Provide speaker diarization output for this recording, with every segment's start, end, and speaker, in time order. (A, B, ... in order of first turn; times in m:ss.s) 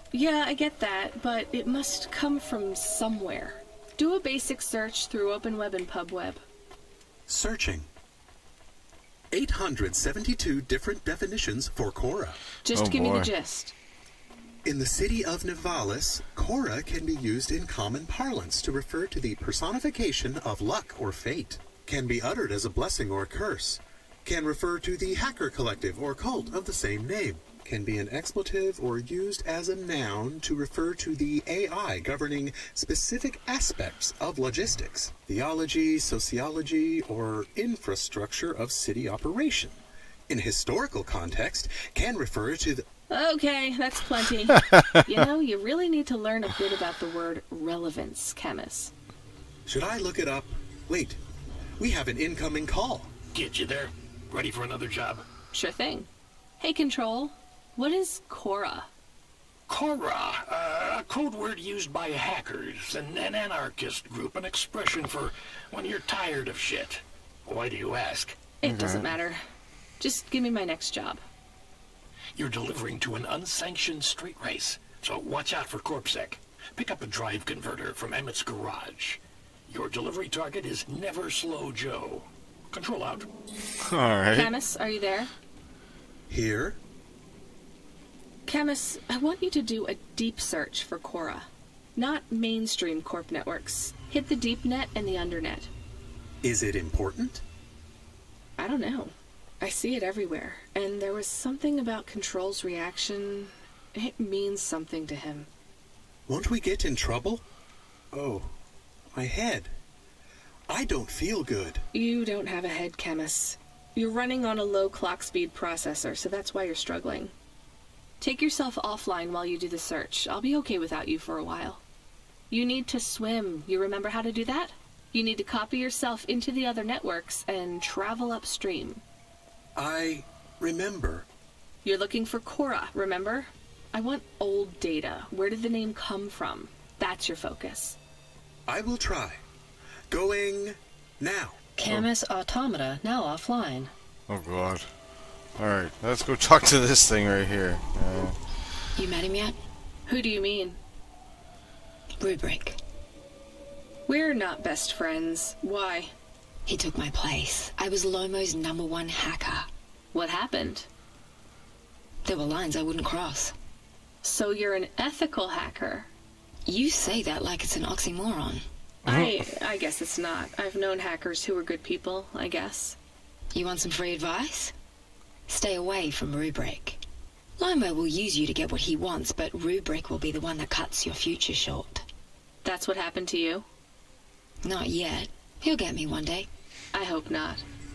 0:00.1-0:06.4 A
0:07.3-0:07.9 B
0:09.3-0:12.4 B
0:12.6-0:13.7 A
0:12.7-0:13.3 C
0:14.6-0:39.8 B
0:40.3-0:42.8 B
0:43.1-0:48.9 A
0:49.7-0:51.2 B
0:51.8-0:53.1 B
0:53.3-0:55.2 D
0:55.5-0:56.1 A
0:56.6-0:58.9 A
0:59.7-1:08.4 D
1:08.5-1:09.4 A
1:08.6-1:09.2 C
1:10.0-1:11.2 A
1:12.4-1:23.3 D
1:23.9-1:24.5 C
1:24.3-1:25.3 A
1:26.3-1:26.8 B
1:28.5-1:35.7 A
1:36.4-1:37.4 B
1:38.6-1:45.5 A
1:46.3-1:47.4 B
1:48.1-1:48.5 B
1:49.1-1:49.7 B
1:50.7-1:51.8 B
1:51.9-1:57.3 A
1:58.2-2:01.8 A
2:02.5-2:09.0 A
2:09.8-2:11.3 B
2:11.8-2:18.0 A
2:18.7-2:19.4 B
2:20.1-2:21.6 B
2:21.8-2:23.9 A
2:24.3-2:24.9 C
2:25.6-2:28.4 C
2:29.0-2:29.6 E
2:30.1-2:30.8 A
2:32.2-2:32.8 E
2:34.1-2:36.1 A
2:36.7-2:39.7 E
2:40.1-2:40.9 A
2:42.2-2:43.5 E
2:44.2-2:46.1 A
2:46.7-2:48.6 E
2:49.0-2:53.0 A
2:49.1-2:49.3 C
2:53.5-2:54.7 E
2:55.5-2:57.0 E
2:57.6-3:02.0 E
3:02.6-3:03.7 A
3:04.6-3:06.5 E
3:06.9-3:07.6 A